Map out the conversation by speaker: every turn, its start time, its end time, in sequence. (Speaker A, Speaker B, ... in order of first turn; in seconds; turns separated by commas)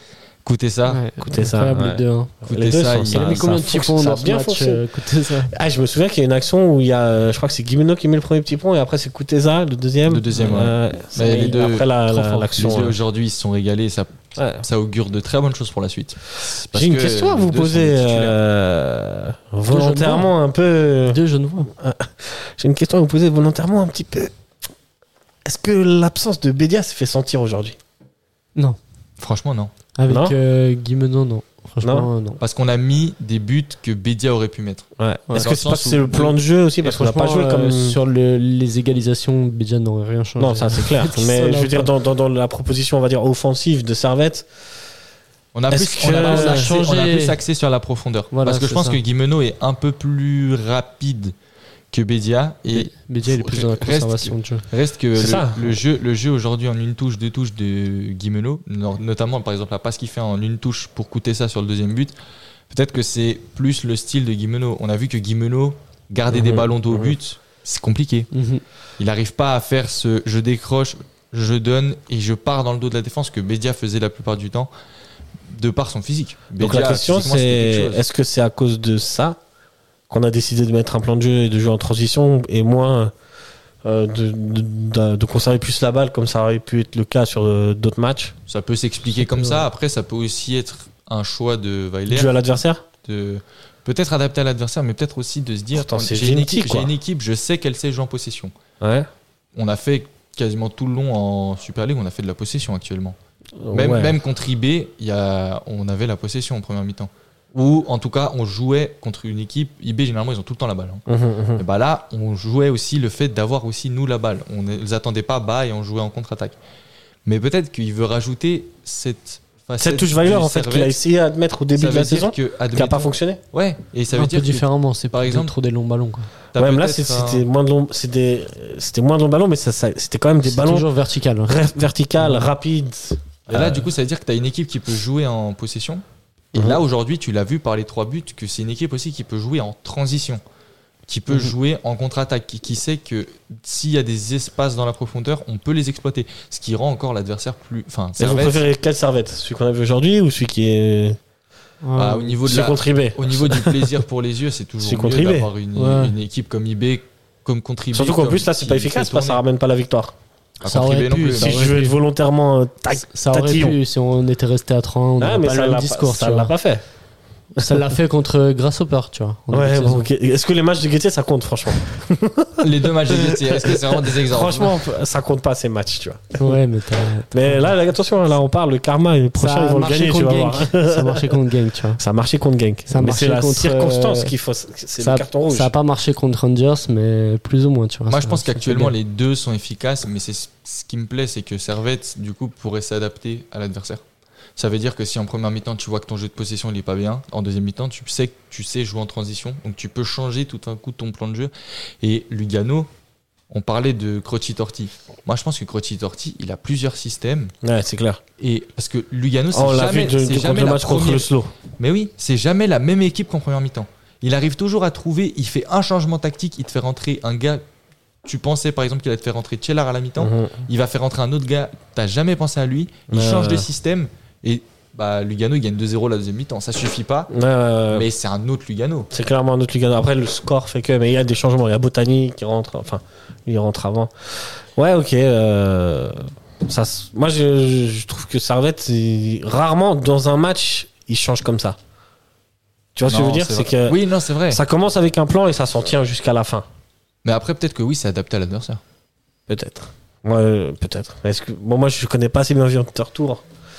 Speaker A: 0.4-1.0, Speaker B: 0.9-2.3, Speaker C: 1.2-4.8, Speaker A: 2.5-3.5, Speaker B: 3.1-5.5, Speaker C: 5.5-13.0, Speaker A: 10.1-11.9, Speaker B: 12.1-12.7, Speaker A: 12.6-18.4, Speaker C: 14.4-14.7, Speaker C: 16.7-24.3, Speaker B: 19.7-20.3, Speaker B: 21.1-21.7, Speaker C: 25.4-27.8, Speaker A: 29.2-29.7, Speaker B: 30.0-32.4, Speaker C: 30.1-30.4, Speaker C: 31.8-32.1, Speaker A: 32.4-36.4, Speaker C: 35.0-38.0, Speaker B: 36.8-41.9, Speaker C: 40.4-44.5, Speaker A: 45.5-51.3, Speaker C: 45.7-46.8, Speaker B: 46.1-47.4, Speaker B: 48.3-49.0, Speaker A: 51.9-62.1, Speaker B: 52.7-54.6, Speaker C: 55.2-55.6, Speaker A: 62.7-68.3, Speaker C: 66.3-67.1, Speaker B: 68.3-68.6, Speaker A: 69.0-74.7, Speaker A: 75.5-78.0, Speaker C: 76.6-79.4, Speaker C: 80.1-83.1, Speaker C: 83.8-88.3, Speaker A: 88.5-92.3, Speaker C: 92.1-92.8, Speaker A: 93.0-98.5, Speaker C: 95.7-96.9, Speaker C: 98.8-99.1, Speaker A: 99.6-103.2, Speaker C: 103.6-104.2, Speaker A: 103.7-111.0, Speaker C: 111.1-111.6, Speaker A: 111.6-116.6, Speaker A: 117.3-121.0, Speaker C: 119.8-123.4, Speaker A: 121.8-125.5, Speaker B: 124.1-126.3, Speaker A: 126.5-127.5, Speaker C: 126.5-130.9, Speaker B: 130.4-131.6, Speaker C: 131.5-133.9, Speaker B: 132.2-132.5, Speaker A: 133.5-136.0, Speaker A: 136.5-140.4, Speaker C: 136.6-136.8, Speaker A: 141.1-148.7, Speaker C: 148.2-151.2, Speaker B: 151.8-152.3, Speaker A: 152.0-159.4, Speaker C: 152.4-154.0, Speaker C: 154.8-155.5, Speaker B: 155.8-156.2, Speaker C: 157.9-160.1, Speaker A: 160.6-161.8, Speaker B: 160.7-161.9, Speaker C: 161.4-163.8, Speaker B: 162.9-166.5, Speaker C: 165.2-166.8, Speaker B: 167.6-170.1, Speaker C: 169.5-176.6, Speaker A: 172.6-174.8, Speaker B: 176.4-177.7, Speaker C: 177.3-181.4, Speaker B: 179.4-182.0, Speaker C: 182.0-185.7, Speaker B: 182.9-184.3, Speaker B: 185.0-188.9, Speaker A: 188.1-194.0, Speaker A: 194.6-202.9, Speaker A: 203.5-207.5, Speaker C: 207.6-208.2, Speaker A: 208.4-211.3, Speaker C: 209.5-211.5, Speaker A: 211.8-217.6, Speaker A: 218.2-227.3, Speaker C: 220.2-220.6, Speaker C: 223.1-223.7, Speaker C: 227.3-228.1, Speaker A: 227.9-229.1, Speaker C: 229.1-241.8, Speaker C: 242.9-246.7, Speaker A: 243.1-244.6, Speaker A: 247.2-248.8, Speaker C: 249.5-253.4